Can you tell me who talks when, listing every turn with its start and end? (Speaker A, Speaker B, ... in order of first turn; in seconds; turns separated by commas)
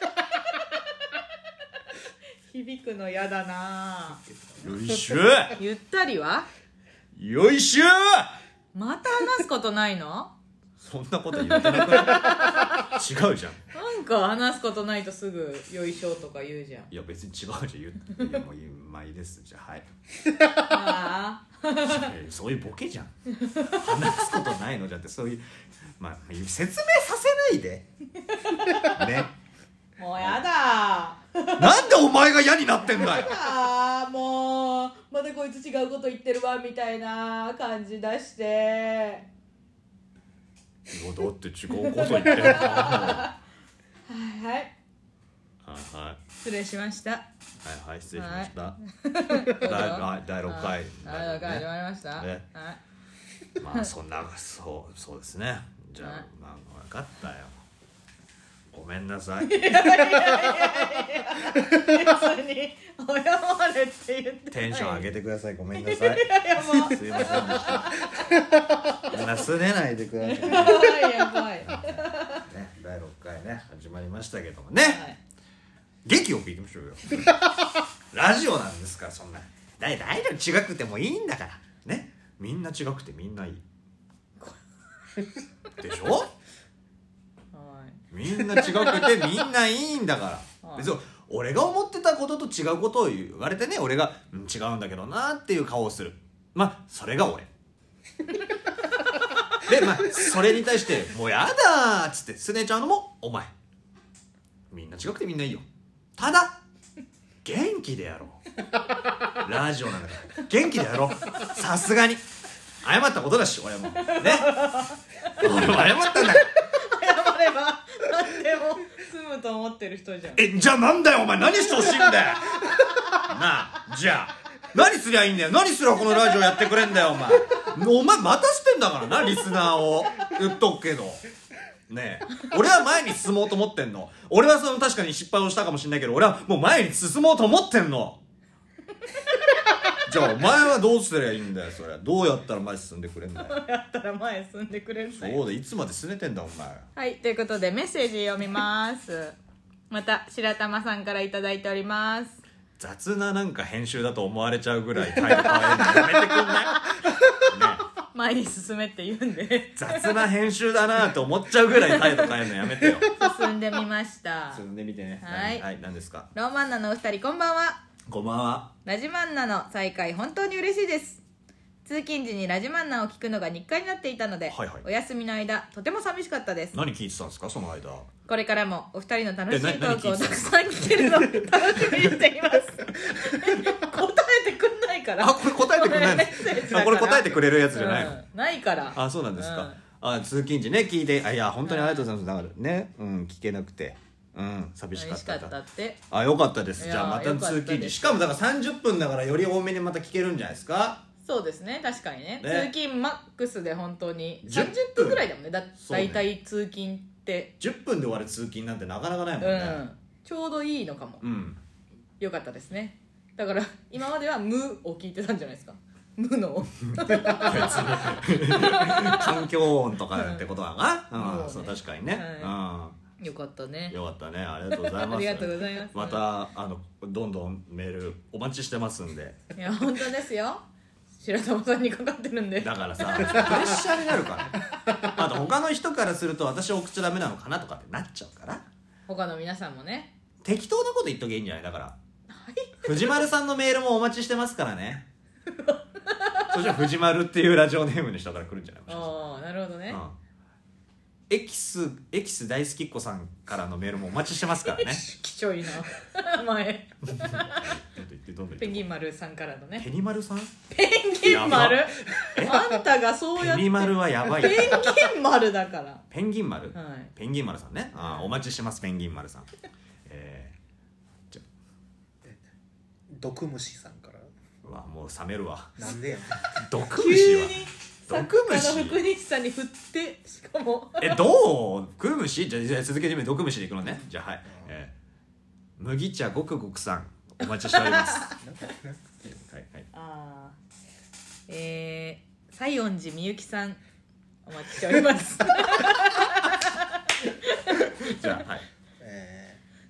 Speaker A: 2.5-4.2, Speaker B: 4.6-5.6, Speaker C: 4.7-5.1, Speaker A: 5.6-6.5, Speaker B: 7.2-8.4, Speaker A: 8.7-10.3, Speaker B: 10.8-13.7, Speaker A: 11.4-12.9, Speaker A: 13.7-16.9, Speaker B: 16.9-19.9, Speaker A: 20.6-22.1, Speaker B: 21.8-23.1, Speaker A: 23.3-24.3, Speaker B: 23.7-25.4, Speaker B: 26.0-27.9, Speaker A: 28.2-29.0, Speaker B: 28.8-29.3, Speaker A: 30.0-32.0, Speaker B: 31.6-33.4, Speaker A: 32.9-39.3, Speaker B: 40.9-43.3, Speaker A: 41.7-43.4, Speaker A: 44.1-44.7, Speaker B: 45.6-46.2, Speaker A: 46.4-47.3, Speaker B: 47.6-48.8, Speaker A: 48.1-52.8, Speaker B: 49.5-52.4, Speaker B: 53.6-57.6, Speaker A: 56.0-56.3, Speaker B: 58.7-59.9, Speaker A: 59.4-65.1, Speaker B: 64.5-68.0, Speaker A: 65.7-68.2, Speaker C: 68.1-69.0, Speaker B: 69.1-71.0, Speaker A: 70.2-72.4, Speaker B: 71.6-75.0, Speaker A: 74.8-75.2, Speaker B: 76.0-77.5, Speaker B: 78.1-83.6, Speaker B: 85.8-86.3, Speaker A: 87.5-89.2, Speaker B: 88.1-97.5, Speaker A: 90.6-90.9, Speaker B: 99.6-103.5, Speaker B: 104.7-105.7, Speaker B: 106.2-106.6, Speaker B: 107.4-108.5, Speaker B: 109.3-112.2, Speaker B: 112.8-114.6, Speaker A: 113.9-120.5, Speaker B: 115.3-116.5, Speaker B: 120.3-131.2, Speaker A: 121.7-122.1, Speaker B: 131.9-138.2, Speaker A: 139.1-140.0, Speaker B: 140.0-143.6, Speaker A: 143.4-145.4, Speaker B: 145.2-146.9, Speaker A: 147.0-149.4, Speaker A: 149.9-152.4, Speaker B: 152.8-157.8, Speaker A: 155.4-157.1, Speaker A: 158.1-160.3, Speaker B: 159.8-163.1, Speaker A: 161.7-162.4, Speaker A: 163.1-164.7, Speaker B: 164.5-166.3, Speaker A: 165.2-165.7, Speaker A: 166.3-167.8, Speaker B: 168.1-168.7, Speaker A: 168.8-171.2, Speaker A: 171.8-176.8, Speaker B: 174.5-174.8, Speaker B: 176.7-178.1, Speaker A: 178.3-189.8, Speaker B: 179.5-182.2, Speaker B: 185.2-188.2, Speaker B: 188.9-195.5, Speaker A: 191.6-192.1, Speaker A: 194.9-196.0, Speaker B: 196.1-201.0, Speaker A: 196.8-198.3, Speaker A: 201.2-207.5, Speaker B: 202.4-202.7, Speaker B: 204.4-205.3, Speaker B: 205.8-206.2, Speaker B: 207.6-209.8, Speaker A: 209.4-211.2, Speaker B: 211.2-211.6, Speaker A: 212.2-219.4, Speaker B: 216.9-223.0, Speaker A: 220.1-220.4, Speaker A: 221.1-222.6, Speaker A: 223.2-224.0, Speaker B: 223.9-229.4, Speaker A: 224.7-226.2, Speaker A: 229.6-230.7, Speaker A: 231.2-233.8, Speaker B: 232.6-238.7, Speaker A: 239.1-240.1, Speaker B: 240.4-242.0, Speaker A: 242.3-243.3, Speaker B: 242.8-245.1, Speaker A: 245.5-246.8, Speaker B: 246.5-249.2, Speaker A: 248.9-250.0, Speaker B: 249.9-250.2, Speaker B: 251.3-255.0, Speaker A: 254.5-257.7, Speaker B: 257.1-258.9, Speaker A: 258.6-259.9, Speaker B: 259.8-260.5, Speaker A: 260.7-266.0, Speaker B: 261.2-262.8, Speaker B: 263.4-265.0, Speaker B: 266.1-269.5, Speaker A: 266.7-267.1, Speaker A: 268.0-268.3, Speaker B: 270.1-270.6, Speaker C: 273.1-274.3, Speaker B: 274.6-276.0, Speaker C: 275.8-276.6, Speaker B: 276.5-279.0, Speaker A: 276.9-281.2, Speaker B: 281.0-284.9, Speaker B: 285.8-288.4, Speaker A: 287.6-288.3, Speaker C: 288.4-289.2, Speaker B: 289.2-289.9, Speaker A: 289.9-290.6, Speaker A: 291.5-293.8, Speaker A: 294.5-298.4, Speaker B: 297.8-298.7, Speaker C: 299.0-299.6